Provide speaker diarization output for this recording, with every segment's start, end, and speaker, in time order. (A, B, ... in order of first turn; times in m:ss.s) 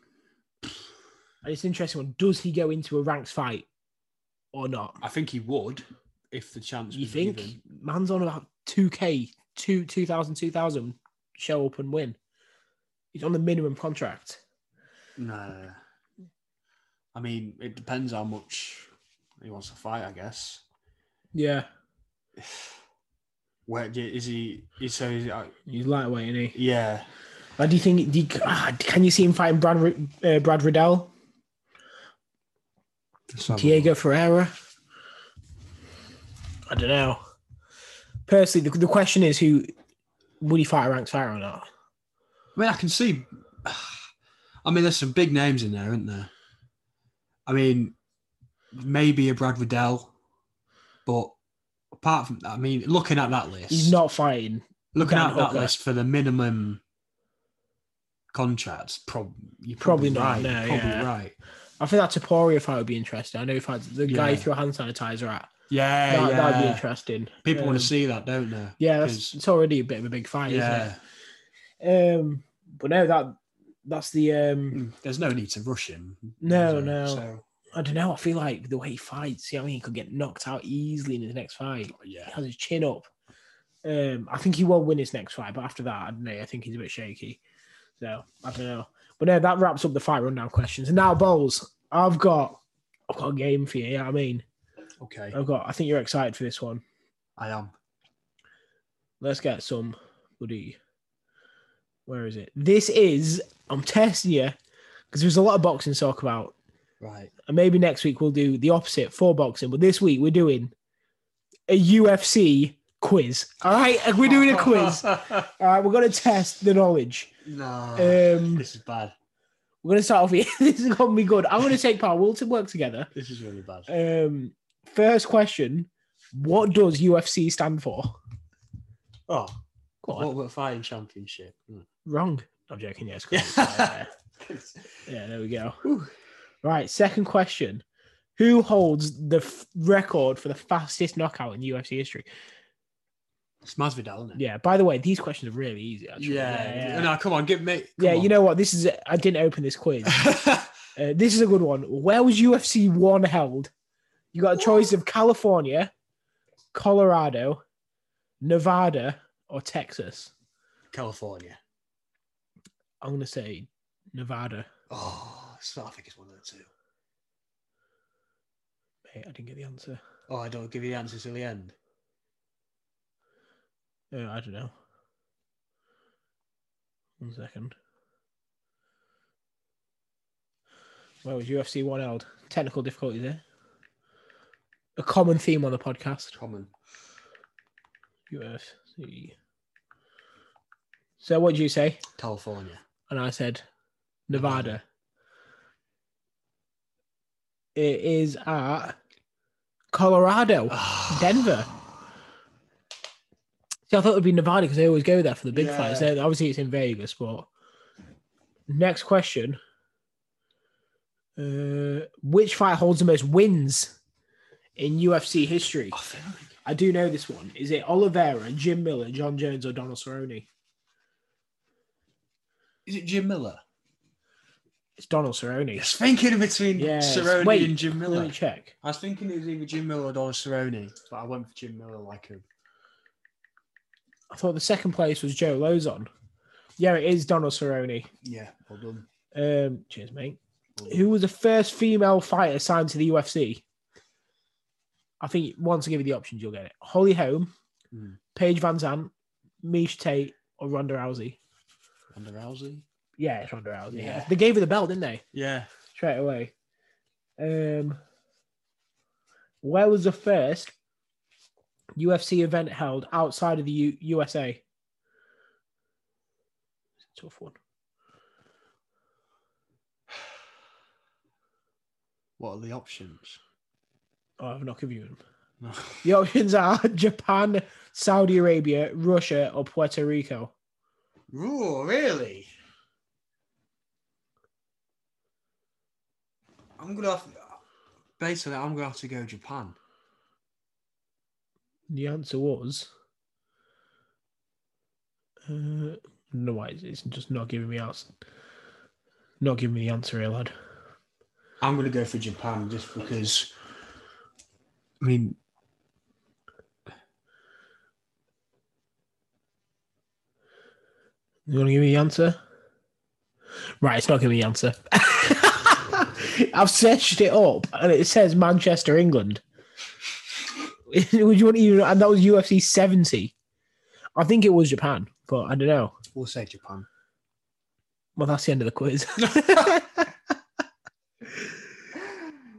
0:01.4-0:03.7 A
0:04.5-0:05.0 A
0:05.0-0:07.6 B
0:06.9-0:12.2 A
0:13.1-0:14.4 A
0:15.2-0:15.8 B
0:17.1-0:18.9 B
0:19.4-0:20.6 B
0:21.3-0:21.7 A
0:22.4-0:22.7 B
0:23.7-0:25.6 B
0:25.7-0:26.6 A
0:26.5-0:27.1 B
0:27.6-0:31.1 A
0:33.3-0:33.9 B
0:33.5-0:34.5 A
0:36.7-0:37.2 A
0:38.3-0:39.7 A
0:40.4-0:41.6 A
0:42.6-0:44.1 B
0:44.6-0:46.3 B
0:47.5-0:48.0 B
0:48.7-0:50.1 B
0:51.1-0:51.3 B
0:51.9-0:54.0 B
0:53.7-0:55.7 A
0:54.9-0:56.8 B
0:58.3-1:01.4 B
0:59.8-1:01.1 A
1:01.8-1:05.5 A
1:04.1-1:04.5 B
1:05.7-1:06.8 B
1:06.1-1:07.9 A
1:07.4-1:09.4 B
1:08.8-1:10.9 A
1:10.5-1:11.0 B
1:11.8-1:14.8 A
1:14.7-1:17.4 B
1:16.4-1:23.1 A
1:22.0-1:22.4 B
1:23.8-1:27.4 A
1:28.0-1:34.4 A
1:35.0-1:35.4 B
1:35.3-1:36.8 A
1:37.4-1:37.7 B
1:39.2-1:40.8 A
1:42.1-1:44.6 A
1:45.1-1:46.5 A
1:47.0-1:47.3 B
1:47.5-1:50.7 A
1:51.7-1:57.3 A
1:54.2-1:55.5 B
1:57.4-1:59.1 B
1:58.0-1:58.7 A
1:59.8-2:03.1 A
2:03.1-2:03.9 B
2:03.9-2:08.2 A
2:09.3-2:11.9 B
2:10.0-2:10.3 A
2:12.0-2:14.1 A
2:13.3-2:15.1 B
2:15.1-2:15.8 A
2:15.8-2:16.1 B
2:16.6-2:17.8 A
2:18.4-2:22.3 A
2:23.6-2:24.4 B
2:24.4-2:27.1 A
2:26.2-2:28.3 B
2:28.0-2:30.3 A
2:30.1-2:30.7 B
2:31.0-2:33.7 A
2:34.3-2:35.9 A
2:36.7-2:37.6 A
2:38.4-2:40.3 A
2:40.9-2:41.6 B
2:43.0-2:44.7 A
2:44.9-2:46.7 B
2:49.1-2:50.0 A
2:50.3-2:51.8 B
2:54.1-2:54.7 A
2:57.2-2:57.8 A
3:01.2-3:03.4 A
3:05.0-3:06.4 A
3:06.4-3:06.7 B
3:08.3-3:09.3 A
3:11.2-3:12.0 A
3:12.2-3:12.8 B
3:13.1-3:13.6 A
3:14.3-3:14.8 A
3:14.3-3:14.8 B
3:17.8-3:19.0 A
3:19.9-3:21.7 A
3:20.7-3:21.6 B
3:23.9-3:27.5 A
3:25.5-3:26.1 B
3:28.7-3:29.6 A
3:31.4-3:34.0 A
3:34.8-3:36.0 A
3:35.9-3:36.6 B
3:36.6-3:40.5 A
3:42.9-3:43.6 B
3:45.0-3:45.9 A
3:45.8-3:52.4 B
3:46.8-3:48.7 A
3:54.3-3:56.1 A
3:56.8-3:58.1 A
3:58.2-3:59.1 B
3:59.3-4:03.6 A
4:00.8-4:01.1 B
4:05.2-4:07.5 A
4:07.9-4:08.2 B
4:08.4-4:09.1 A
4:09.6-4:11.4 A
4:12.1-4:12.8 B
4:13.2-4:15.2 A
4:13.9-4:14.3 B
4:15.3-4:15.7 B
4:15.9-4:16.5 A
4:17.4-4:18.0 A
4:19.6-4:20.7 A
4:22.0-4:24.6 A
4:27.1-4:27.6 A
4:32.4-4:33.4 B
4:34.4-4:35.2 A
4:35.6-4:36.0 B
4:36.0-4:40.5 A
4:41.3-4:42.5 B
4:46.8-4:47.6 B
4:48.2-4:49.8 B
4:51.9-4:52.9 A
4:55.5-4:58.1 A
4:59.4-5:00.5 A
5:01.6-5:03.5 B
5:05.0-5:05.4 B
5:11.5-5:12.4 A
5:13.8-5:19.4 A
5:20.9-5:23.3 A
5:24.2-5:26.0 A
5:26.1-5:26.9 B
5:28.2-5:30.1 A
5:29.2-5:29.8 B